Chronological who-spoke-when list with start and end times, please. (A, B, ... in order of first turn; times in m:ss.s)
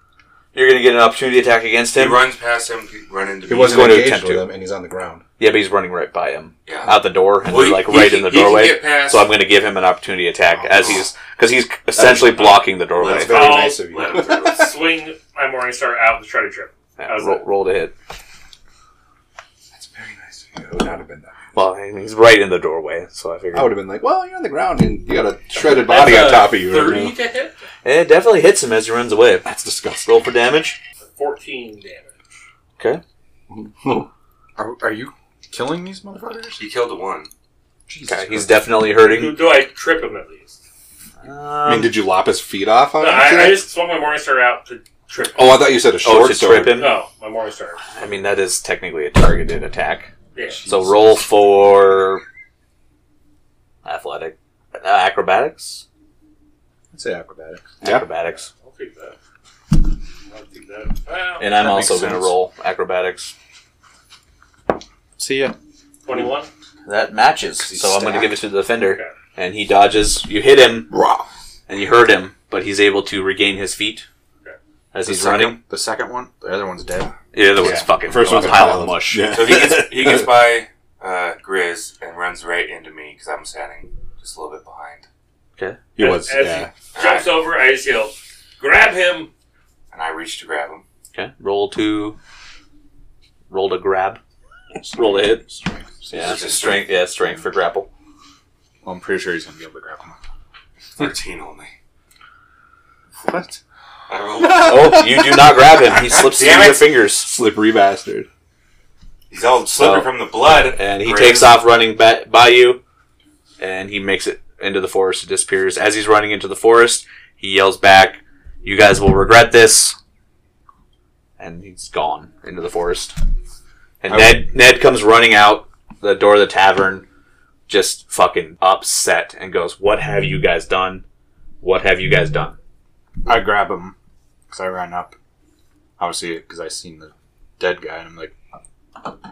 0:00.5-0:02.2 A
0:01.9-0:04.0 B
0:03.5-0:05.2 C
0:03.5-0:04.5 A
0:05.4-0:13.5 A
0:06.7-0:09.3 B
0:10.7-0:11.0 B
0:12.0-0:12.4 C
0:12.1-0:14.8 B
0:13.0-0:14.7 C
0:13.3-0:13.8 D
0:14.5-0:17.4 D
0:17.0-0:17.9 A
0:19.7-0:21.4 C
0:21.5-0:23.8 A
0:23.5-0:27.2 C
0:25.6-0:27.6 D
0:27.8-0:29.5 A
0:29.4-0:30.1 C
0:30.0-0:30.8 A
0:31.2-0:32.2 D
0:33.5-0:34.1 C
0:34.6-0:36.6 E
0:36.6-0:37.3 B
0:37.9-0:38.7 E
0:38.1-0:39.4 A
0:38.9-0:40.6 D
0:41.2-0:42.0 A
0:41.6-0:43.6 C
0:43.0-0:45.7 D
0:45.3-0:46.8 C
0:46.0-0:47.0 A
0:46.7-0:47.9 D
0:48.0-0:50.1 A
0:50.4-0:50.7 D
0:50.4-0:51.6 E
0:50.7-0:52.2 A
0:53.8-0:55.8 A
0:56.9-0:57.7 E
0:57.8-0:58.5 A
0:58.3-0:59.2 D
1:00.3-1:01.5 D
1:01.4-1:03.3 A
1:01.5-1:02.4 E
1:05.2-1:05.6 E
1:06.0-1:06.5 D
1:06.8-1:10.9 A
1:07.7-1:08.2 C
1:08.8-1:09.1 D
1:10.9-1:11.3 E
1:11.7-1:14.1 A
1:14.9-1:15.6 A
1:15.0-1:17.2 E
1:17.3-1:19.4 A
1:17.6-1:20.3 C
1:19.3-1:25.1 B
1:26.0-1:26.7 C
1:26.0-1:29.3 D
1:26.9-1:27.4 B
1:29.9-1:30.8 B
1:31.1-1:32.2 A
1:33.5-1:34.2 A
1:34.8-1:36.3 C
1:34.9-1:35.4 A
1:36.1-1:37.9 A
1:36.1-1:36.9 B
1:38.8-1:40.2 E
1:41.0-1:41.7 B
1:43.3-1:43.6 C
1:44.1-1:45.0 B
1:44.4-1:48.3 C
1:44.6-1:47.3 A
1:46.2-1:46.8 B
1:49.3-1:51.6 B
1:49.8-1:52.8 A
1:53.6-2:00.0 A
2:01.4-2:03.1 A
2:04.0-2:07.1 A
2:04.1-2:04.5 E
2:07.7-2:11.0 A
2:11.6-2:12.6 A
2:13.2-2:14.0 E
2:14.5-2:15.1 E
2:16.0-2:18.4 E